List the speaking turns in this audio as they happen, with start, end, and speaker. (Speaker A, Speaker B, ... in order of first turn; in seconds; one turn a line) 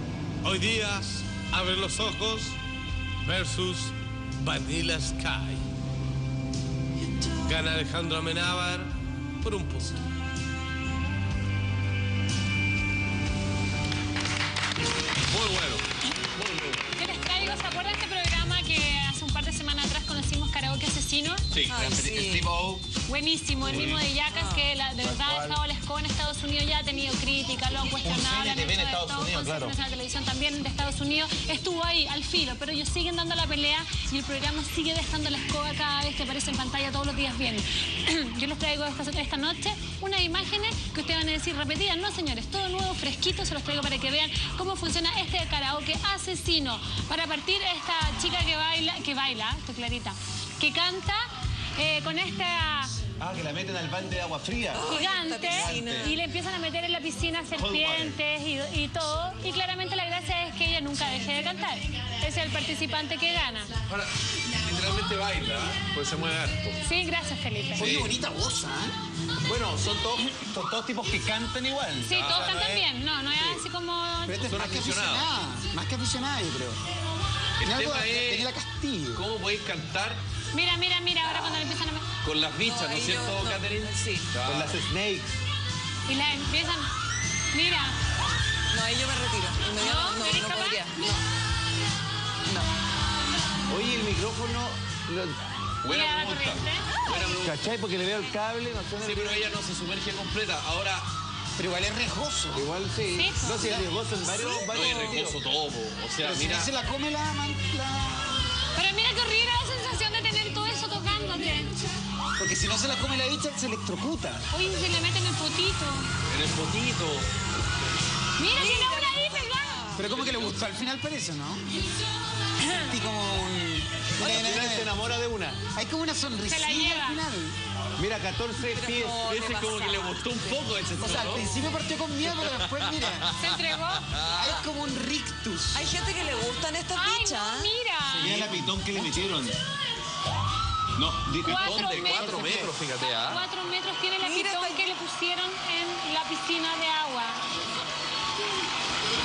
Speaker A: 0.4-2.6
Speaker A: 3.2-5.6
Speaker A: 7.4-10.0
Speaker B: 15.3-16.8
Speaker C: 17.0-21.4
Speaker B: 21.5-22.3
Speaker D: 21.7-22.5
Speaker E: 21.8-22.8
Speaker C: 23.1-51.2
Speaker B: 23.7-24.0
Speaker D: 24.2-24.7
Speaker E: 25.0-25.6
Speaker E: 28.0-29.8
Speaker C: 51.8-52.9
Speaker E: 53.2-56.1
Speaker D: 54.7-56.2
Speaker C: 54.8-63.7
Speaker E: 57.5-58.2
Speaker B: 63.9-66.8
Speaker C: 66.8-67.8
Speaker F: 67.8-68.9
Speaker B: 67.8-68.1
Speaker E: 69.5-72.8
Speaker C: 72.0-74.4
Speaker B: 72.1-72.7
Speaker F: 74.2-76.8
Speaker B: 74.5-75.3
Speaker B: 77.6-78.5
Speaker F: 77.6-79.2
Speaker B: 79.1-80.2
Speaker C: 80.5-82.0
Speaker B: 82.2-84.8
Speaker D: 82.6-84.3
Speaker E: 84.4-85.4
Speaker C: 86.1-86.9
Speaker C: 87.5-87.9
Speaker D: 88.7-91.2
Speaker C: 89.8-90.9
Speaker E: 93.7-95.4
Speaker B: 95.8-97.6
Speaker C: 95.9-96.9
Speaker E: 97.4-99.5
Speaker B: 99.0-101.1
Speaker F: 101.6-102.7
Speaker E: 102.5-105.4
Speaker C: 103.1-103.6
Speaker F: 103.5-103.9
Speaker B: 104.2-106.7
Speaker F: 106.2-108.4
Speaker C: 108.8-111.7
Speaker F: 112.4-114.4
Speaker C: 114.5-116.1
Speaker B: 116.3-117.3
Speaker C: 118.4-119.8
Speaker D: 118.5-120.0
Speaker F: 120.0-121.6
Speaker B: 120.0-120.6
Speaker F: 122.8-124.9
Speaker B: 124.2-125.6
Speaker E: 124.2-124.8
Speaker F: 125.7-127.5
Speaker C: 126.5-127.2
Speaker E: 128.0-129.2
Speaker D: 128.6-130.7
Speaker B: 129.2-131.5
Speaker F: 131.0-133.3
Speaker B: 132.2-134.6
Speaker C: 133.4-134.1
Speaker F: 134.3-135.9
Speaker D: 135.7-137.7
Speaker C: 136.9-138.2
Speaker E: 138.2-139.6
Speaker B: 138.2-138.7
Speaker E: 140.9-142.1
Speaker C: 141.4-142.4
Speaker B: 141.4-143.4
Speaker F: 142.1-142.7
Speaker C: 143.0-147.4
Speaker D: 144.2-144.9